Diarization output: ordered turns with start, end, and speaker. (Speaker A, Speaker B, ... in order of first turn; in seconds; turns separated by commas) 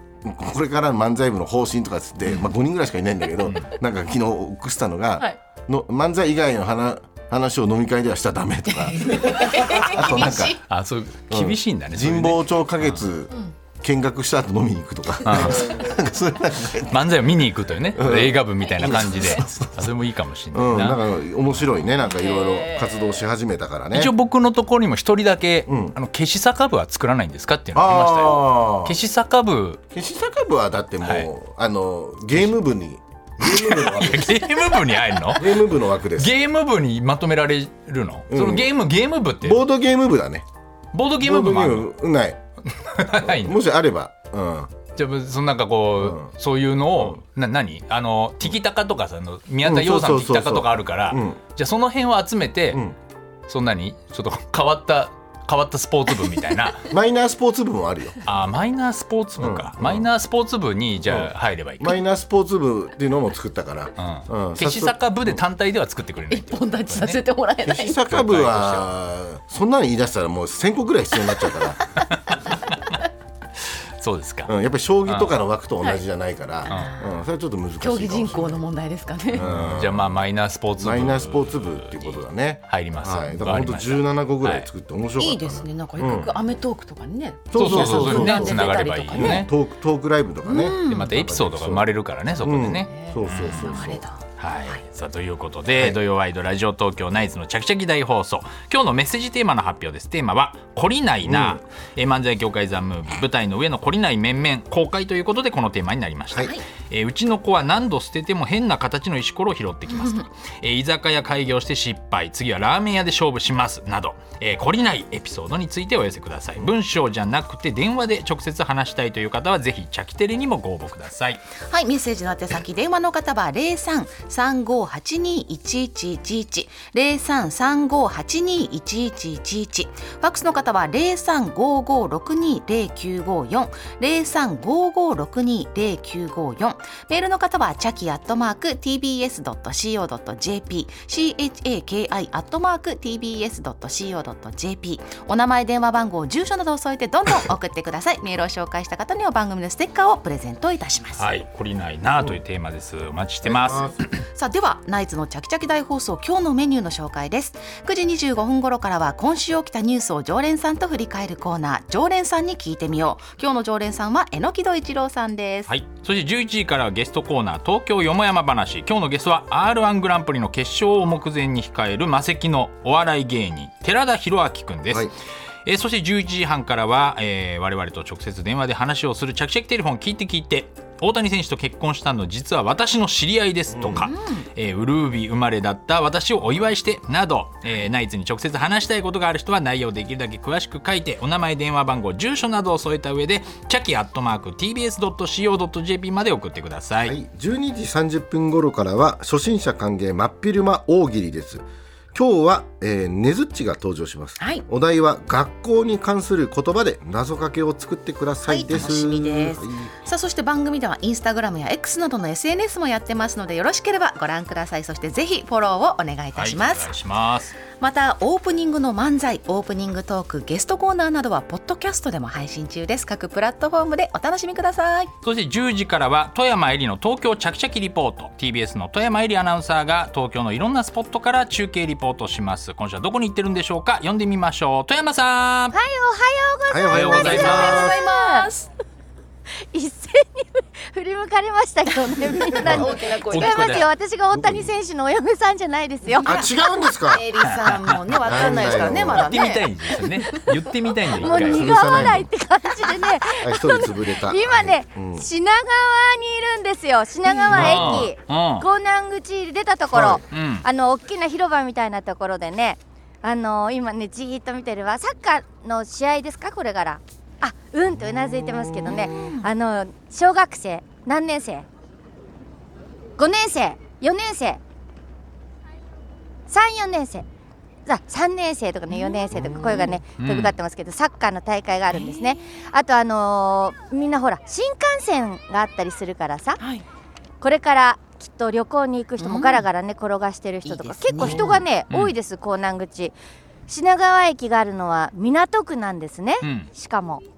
Speaker A: 0.2-10.6, Speaker B: 3.4-3.7, Speaker C: 8.9-10.6, Speaker B: 9.8-13.0, Speaker A: 11.3-17.1, Speaker B: 15.2-15.8, Speaker B: 16.9-21.0, Speaker A: 17.9-19.9, Speaker C: 18.9-19.4, Speaker A: 20.5-24.1, Speaker C: 22.0-23.2, Speaker B: 23.9-29.8, Speaker A: 25.7-26.0, Speaker A: 27.7-29.0, Speaker A: 29.9-34.8, Speaker B: 31.0-31.3, Speaker B: 33.4-35.6, Speaker A: 35.3-36.3, Speaker B: 36.2-39.7, Speaker A: 38.3-38.7, Speaker A: 39.4-40.5, Speaker B: 40.9-41.9, Speaker A: 41.2-42.4, Speaker B: 42.7-43.6, Speaker A: 43.2-44.7, Speaker B: 45.0-52.8, Speaker A: 46.0-46.3, Speaker A: 49.6-51.4, Speaker B: 53.5-56.9, Speaker A: 56.9-58.2, Speaker B: 58.2-62.0, Speaker A: 59.4-60.1, Speaker A: 61.0-65.4, Speaker B: 64.0-67.2, Speaker C: 66.3-68.1, Speaker A: 67.7-71.8, Speaker B: 68.1-68.9, Speaker B: 72.1-73.0, Speaker B: 73.6-74.5, Speaker A: 74.5-78.6, Speaker B: 75.1-75.4, Speaker C: 76.7-77.1, Speaker B: 76.7-77.0, Speaker C: 77.8-79.5, Speaker A: 79.3-80.2, Speaker B: 79.3-84.7, Speaker A: 80.8-86.4, Speaker C: 85.2-89.5, Speaker A: 87.5-91.9, Speaker B: 87.5-89.5, Speaker C: 90.5-91.1, Speaker B: 90.7-121.4, Speaker A: 92.4-94.0, Speaker C: 92.9-94.8, Speaker A: 101.3-101.6, Speaker C: 109.9-110.2, Speaker C: 121.7-151.3, Speaker B: 151.2-154.0, Speaker A: 153.4-154.0, Speaker C: 154.3-165.7, Speaker B: 165.7-175.1, Speaker B: 175.7-197.2, Speaker A: 183.7-184.1, Speaker C: 183.9-184.5, Speaker A: 197.0-209.9, Speaker C: 204.4-204.7, Speaker C: 208.4-216.9, Speaker B: 216.3-217.6, Speaker C: 217.7-225.1, Speaker B: 225.2-235.8, Speaker D: 235.7-238.5, Speaker A: 236.7-238.0, Speaker B: 236.9-237.9, Speaker C: 237.2-238.7, Speaker D: 239.7-246.4, Speaker C: 242.3-243.8, Speaker B: 242.7-243.9, Speaker A: 242.7-242.9, Speaker A: 244.3-244.7, Speaker C: 246.1-246.4, Speaker A: 246.2-247.3, Speaker C: 247.1-250.7, Speaker B: 247.4-252.2, Speaker A: 248.2-249.4, Speaker D: 251.2-271.7, Speaker A: 251.2-252.3, Speaker A: 253.4-255.3, Speaker C: 257.2-257.5, Speaker A: 257.5-258.1, Speaker B: 257.5-258.7, Speaker A: 259.9-260.2, Speaker B: 260.3-260.6, Speaker A: 268.0-269.1, Speaker C: 269.0-269.5, Speaker D: 273.2-274.6, Speaker D: 276.5-277.2, Speaker D: 277.9-286.6, Speaker C: 278.9-280.0, Speaker A: 279.3-279.8, Speaker B: 280.2-280.6, Speaker C: 281.9-282.4, Speaker C: 286.6-286.9, Speaker D: 287.4-293.1, Speaker C: 289.2-289.7, Speaker C: 290.6-291.6, Speaker A: 291.2-291.5, Speaker D: 293.7-297.2, Speaker B: 296.4-296.7